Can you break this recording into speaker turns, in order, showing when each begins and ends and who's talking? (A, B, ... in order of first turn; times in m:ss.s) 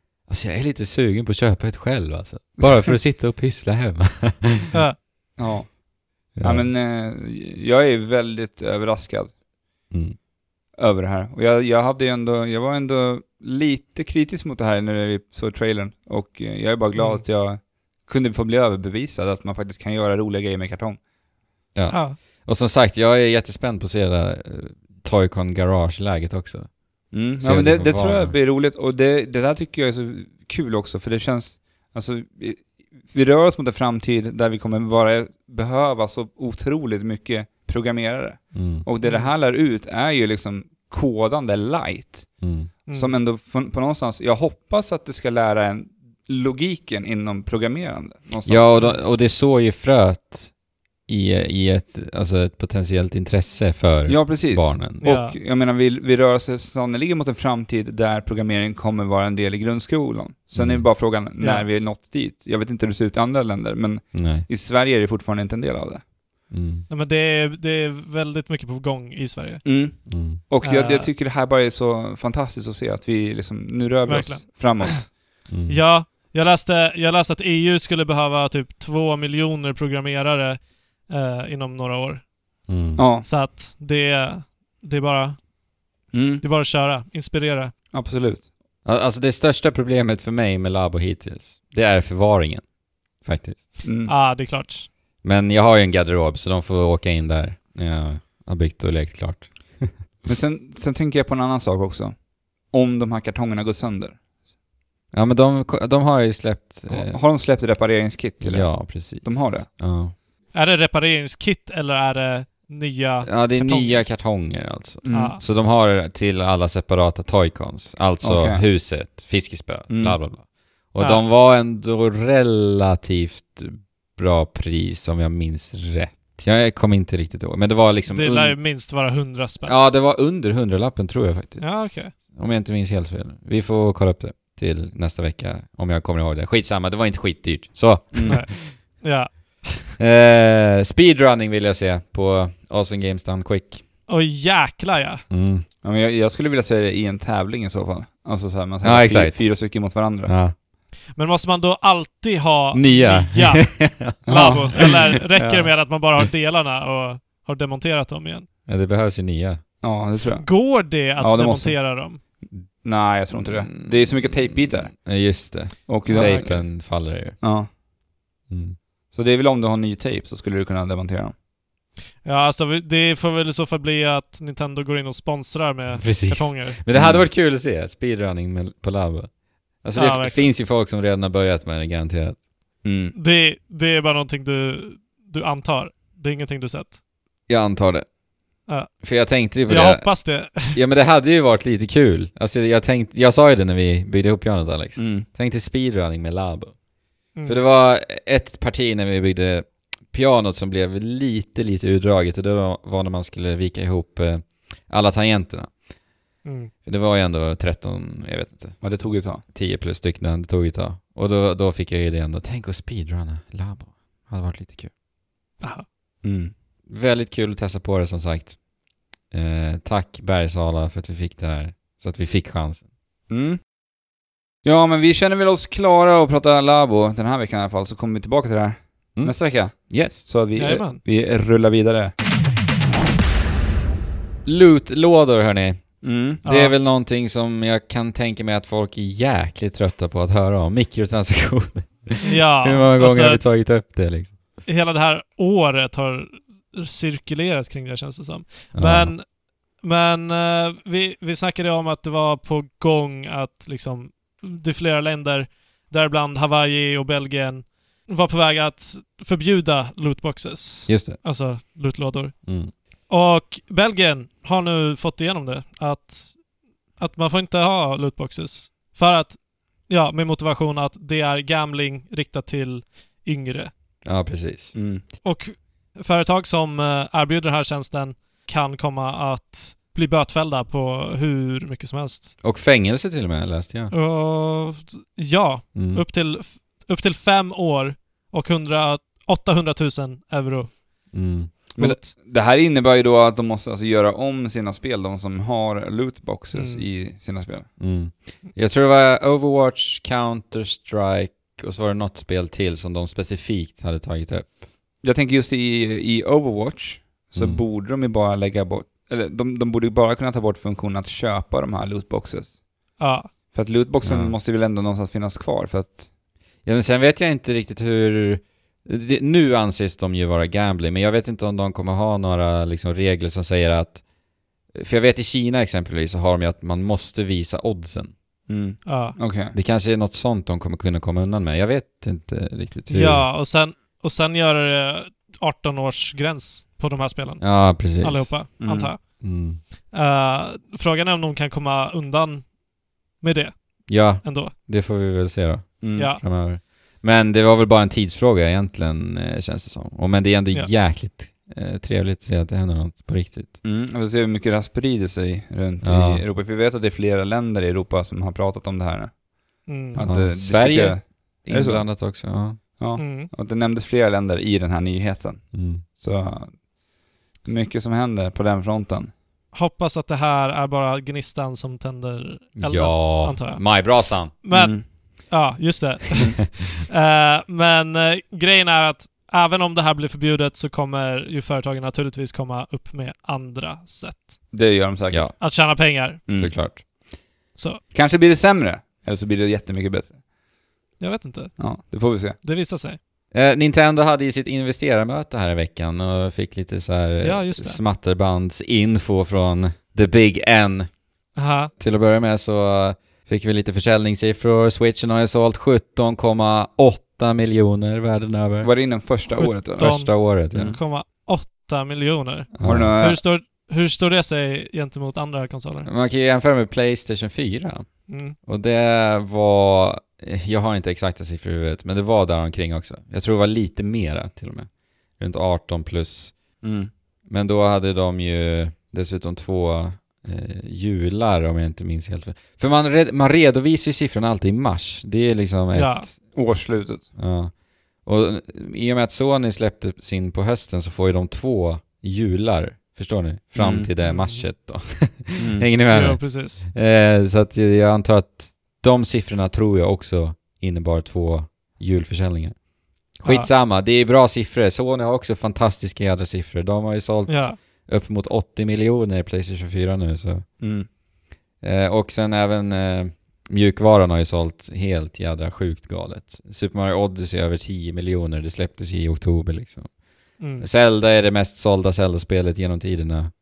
0:00.3-0:04.7 A
0:05.4-0:05.8 B
0:06.4-0:06.7 A
0:06.4-0:09.3 B
0:09.9-0:10.2 A
0:10.8-0:21.0 B
0:16.9-0:17.2 C
0:21.7-0:26.7 A
0:21.9-0:22.2 C
0:27.1-0:42.3 B
0:27.4-0:28.3 A
0:38.5-0:38.8 A
0:39.0-0:39.3 C
0:42.4-0:42.7 A
0:42.9-0:43.2 C
0:42.9-0:48.9 B
0:48.4-0:50.5 A
0:51.1-0:55.0 A
0:54.1-1:06.0 B
0:55.0-0:55.4 C
1:00.6-1:00.9 A
1:01.4-1:01.6 C
1:04.1-1:04.4 A
1:06.5-1:06.8 A
1:06.9-1:09.6 C
1:09.6-1:15.1 B
1:10.1-1:10.4 A
1:10.6-1:11.1 C
1:14.0-1:15.0 C
1:15.5-1:15.8 A
1:15.7-1:22.2 C
1:22.7-1:23.0 A
1:23.0-1:23.2 B
1:23.2-1:25.4 C
1:26.1-1:26.4 B
1:26.4-1:27.7 C
1:27.9-1:28.4 B
1:28.8-1:32.6 A
1:33.2-1:33.8 A
1:33.8-1:34.1 B
1:34.0-1:34.9 C
1:35.2-1:40.0 A
1:40.2-1:42.2 B
1:42.7-1:44.2 B
1:45.1-1:47.2 A
1:46.9-1:49.7 B
1:48.4-1:50.1 A
1:50.5-1:54.0 C
1:53.2-2:08.6 A
1:55.0-1:55.4 B
1:55.1-1:55.4 C
1:58.2-1:58.6 B
1:59.9-2:00.2 B
2:01.0-2:01.2 C
2:08.1-2:09.8 C
2:09.6-2:18.6 A
2:11.6-2:12.1 C
2:18.1-2:18.4 B
2:18.3-2:19.9 C
2:20.0-2:23.8 A
2:24.1-2:25.2 C
2:25.3-2:25.6 A
2:25.8-2:30.3 B
2:28.8-2:29.5 A
2:30.2-2:30.5 A
2:31.1-2:38.5 C
2:32.7-2:35.7 A
2:34.2-2:34.9 B
2:38.7-2:39.6 A
2:39.8-2:41.8 B
2:40.4-2:42.2 C
2:42.8-2:44.9 B
2:43.4-2:47.4 A
2:45.9-2:46.8 B
2:46.1-2:46.5 C
2:47.4-2:47.7 B
2:48.5-2:48.8 A
2:49.1-2:51.3 B
2:52.2-2:56.8 C
2:55.9-2:59.3 A
2:56.9-2:57.2 B
2:59.8-3:02.4 A
3:00.0-3:00.5 C
3:02.8-3:03.1 B
3:03.1-3:07.0 C
3:07.5-3:08.1 A
3:08.7-3:08.9 C
3:09.0-3:16.8 A
3:09.6-3:10.8 C
3:15.0-3:15.2 B
3:17.3-3:17.6 C
3:17.4-3:25.7 A
3:26.4-3:26.7 C
3:26.8-3:28.8 A
3:28.8-3:29.4 B
3:29.5-3:34.9 A
3:36.2-3:36.5 B
3:36.9-3:38.6 A
3:39.3-3:42.8 A
3:43.3-3:43.6 B
3:44.6-3:52.1 B
3:49.2-3:50.2 A
3:50.6-3:51.0 C
3:54.4-4:04.4 A
3:56.0-3:56.4 B
3:56.4-3:56.7 C
4:02.2-4:03.4 C
4:04.6-4:09.2 C
4:08.7-4:09.1 A
4:09.8-4:22.4 C
4:20.9-4:21.2 A
4:22.4-4:22.7 A
4:23.1-4:26.4 C
4:27.0-4:33.7 C
4:34.0-4:34.7 A
4:34.7-4:35.0 B
4:35.2-4:42.4 C
4:42.4-4:43.9 A
4:43.9-4:50.8 C
4:45.7-4:46.0 A
4:51.1-4:51.5 A
4:51.7-4:57.7 B
4:51.8-4:52.1 C
4:56.5-4:56.8 C
4:57.8-5:04.6 A
5:05.0-5:12.6 B
5:13.0-5:13.3 C
5:13.5-5:16.1 B
5:14.0-5:14.4 A
5:16.6-5:24.0 A
5:24.7-5:28.1 A
5:28.5-5:29.5 B
5:28.8-5:29.2 C
5:29.5-5:33.2 A
5:32.9-5:39.1 C
5:37.4-5:38.4 A
5:38.6-5:38.9 B
5:39.2-5:39.6 A
5:39.9-5:42.6 C
5:43.2-5:44.5 C
5:43.9-5:53.5 A
5:45.8-5:46.1 B
5:53.6-5:59.1 B
5:55.8-5:56.2 A
5:59.7-6:00.0 C
5:59.9-6:01.9 B
6:00.0-6:02.6 A
6:02.8-6:06.6 B
6:03.0-6:03.3 C
6:05.5-6:05.8 A
6:07.4-6:09.1 B
6:09.5-6:24.4 C
6:12.6-6:14.3 A
6:14.5-6:14.8 B
6:24.5-6:25.4 B
6:25.1-6:25.4 A
6:25.4-6:26.2 C
6:26.3-6:26.5 B
6:26.3-6:26.8 A
6:27.5-6:27.8 C
6:27.9-6:30.2 B
6:31.0-6:31.6 C
6:31.6-6:32.4 B
6:32.4-6:33.0 C
6:33.3-6:40.9 A
6:37.2-6:37.8 C
6:41.4-6:41.7 C
6:41.8-6:48.7 A
6:48.6-6:50.0 B
6:49.3-6:55.9 C
6:49.8-6:50.8 A
6:50.5-6:50.8 B
6:52.5-6:53.0 A
6:52.6-6:53.2 B
6:55.8-7:04.7 A
6:58.1-6:58.4 C
7:05.2-7:06.4 A
7:06.6-7:06.9 B
7:07.3-7:16.2 A
7:15.7-7:16.1 C
7:16.3-7:17.1 B
7:17.2-7:32.6 A
7:23.6-7:23.9 B
7:24.0-7:24.4 C
7:25.4-7:25.7 B
7:25.9-7:26.6 C
7:33.1-7:40.4 A
7:37.3-7:37.6 C
7:40.6-7:40.9 B
7:41.6-7:49.9 A
7:50.4-7:50.7 C
7:50.6-7:53.3 A